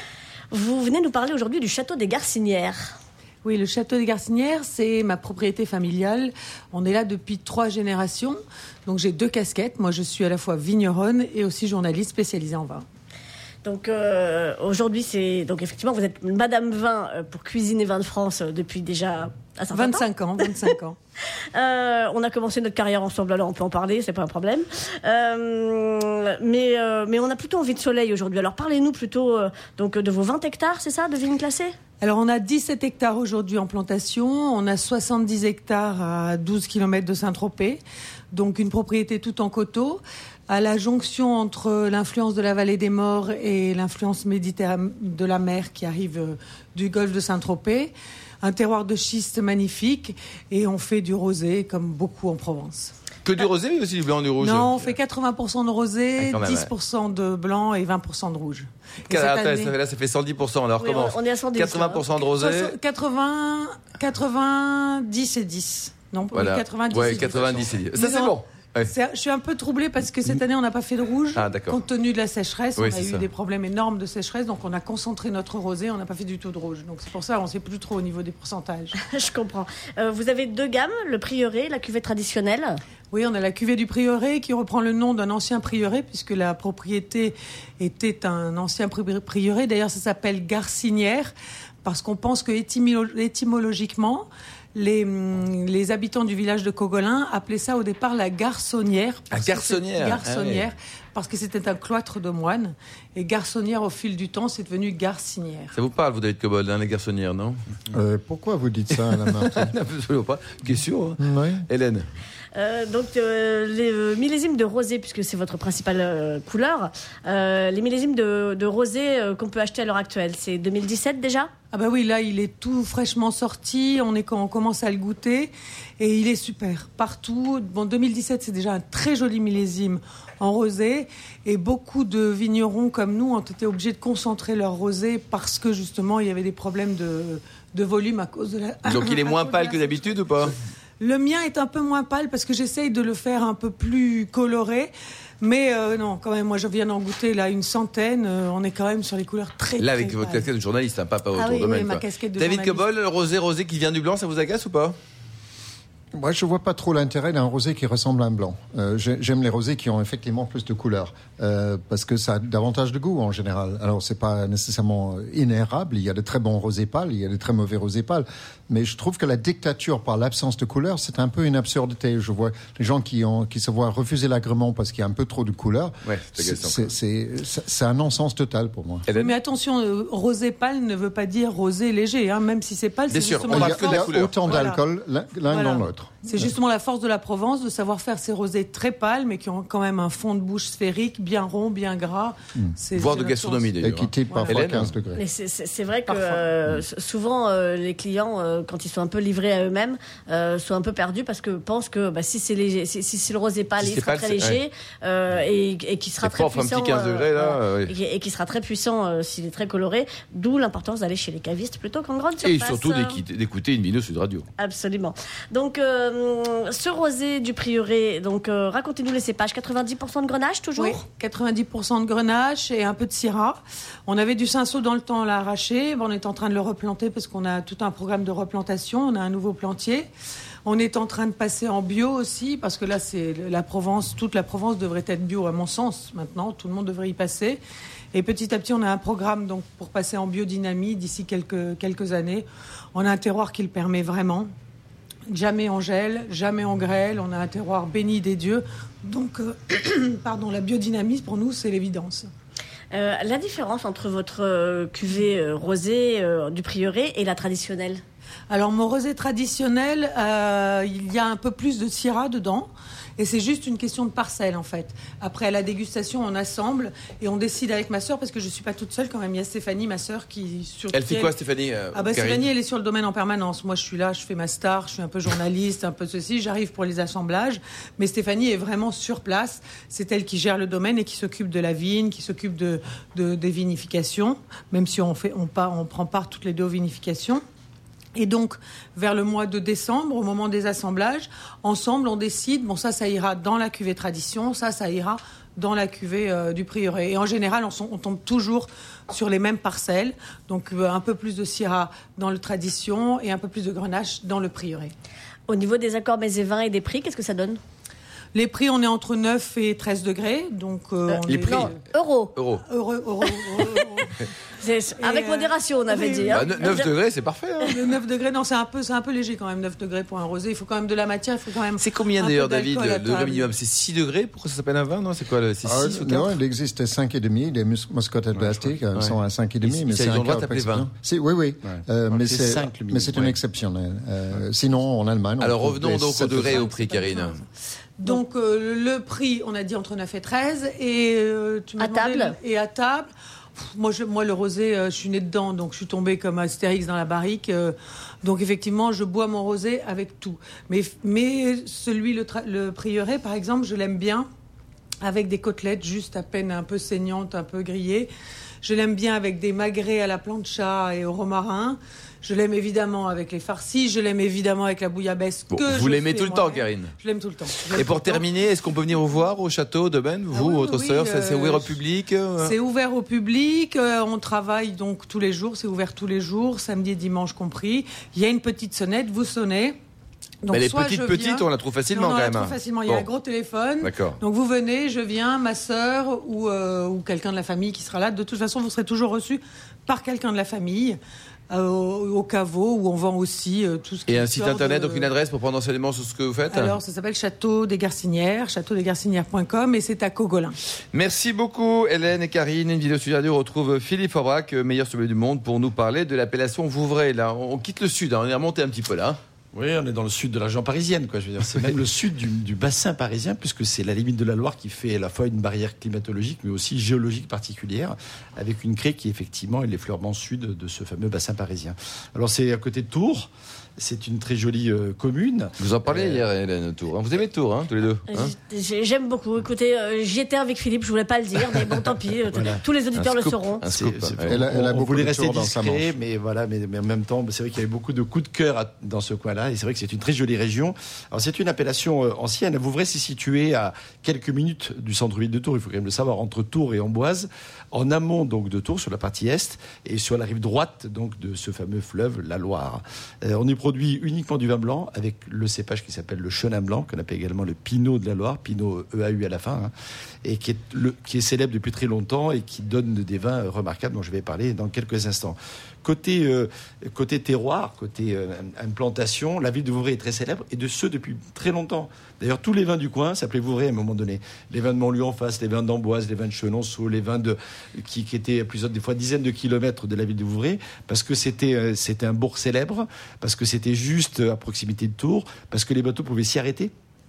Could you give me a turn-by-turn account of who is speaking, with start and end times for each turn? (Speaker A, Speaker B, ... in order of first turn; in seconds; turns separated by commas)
Speaker A: 0.5-3.0, Speaker B: 3.4-12.8, Speaker A: 13.6-20.5, Speaker B: 19.7-21.0, Speaker A: 21.5-31.8, Speaker B: 32.0-37.8, Speaker B: 38.3-52.9, Speaker C: 53.2-55.0, Speaker B: 54.4-59.7, Speaker C: 56.2-56.7, Speaker C: 59.1-62.7, Speaker A: 60.8-62.2, Speaker B: 62.2-78.9, Speaker C: 66.3-68.9, Speaker C: 71.4-71.8, Speaker C: 72.8-73.3, Speaker A: 79.0-82.8, Speaker B: 83.1-91.3, Speaker B: 91.8-105.8, Speaker C: 99.3-100.7, Speaker C: 105.7-107.6, Speaker D: 107.9-109.7, Speaker C: 109.1-112.1, Speaker D: 111.2-111.7, Speaker A: 112.5-121.5, Speaker B: 121.7-150.5, Speaker C: 138.9-140.6, Speaker C: 149.8-155.0, Speaker B: 151.3-152.8, Speaker D: 156.2-179.1, Speaker C: 176.1-176.8, Speaker C: 179.1-179.3, Speaker B: 179.1-184.8, Speaker C: 183.1-184.6, Speaker D: 183.5-186.5, Speaker B: 185.5-193.8, Speaker C: 193.0-194.9, Speaker D: 193.8-195.2, Speaker B: 194.3-194.6, Speaker A: 195.1-213.2, Speaker B: 196.1-196.4, Speaker C: 203.8-204.6, Speaker C: 206.2-207.9, Speaker C: 212.4-214.5, Speaker A: 214.6-221.0, Speaker B: 220.8-230.1, Speaker B: 230.7-237.6, Speaker B: 238.1-244.5, Speaker B: 245.3-252.3, Speaker A: 252.9-258.0, Speaker B: 258.5-271.4, Speaker C: 270.9-272.5, Speaker B: 271.9-287.4, Speaker B: 288.2-304.9, Speaker A: 305.5-307.6, Speaker B: 308.3-311.8, Speaker A: 311.1-312.4, Speaker C: 311.3-311.7, Speaker C: 312.3-312.6, Speaker B: 312.6-314.1, Speaker A: 313.3-314.1, Speaker A: 314.6-316.9, Speaker B: 315.0-316.9, Speaker C: 316.3-317.8, Speaker B: 317.7-323.5, Speaker C: 321.8-326.4, Speaker D: 325.6-336.6, Speaker E: 328.4-328.7, Speaker C: 329.0-330.9, Speaker E: 331.7-333.4, Speaker C: 335.4-337.4, Speaker B: 336.5-337.4, Speaker B: 338.0-354.3, Speaker A: 341.8-342.4, Speaker B: 355.0-358.1, Speaker B: 358.6-368.3, Speaker C: 365.5-366.9, Speaker C: 367.6-372.6, Speaker B: 370.3-371.8, Speaker B: 372.4-379.8, Speaker B: 380.4-391.0, Speaker C: 380.5-383.1, Speaker C: 383.8-384.2, Speaker B: 391.5-395.1, Speaker C: 394.1-396.8, Speaker B: 396.5-400.6, Speaker C: 400.9-409.2, Speaker E: 409.5-426.2, Speaker C: 425.6-428.3, Speaker A: 428.1-433.6, Speaker E: 432.3-432.6, Speaker C: 433.0-434.4, Speaker E: 433.6-459.7, Speaker D: 434.3-435.9, Speaker E: 460.2-486.7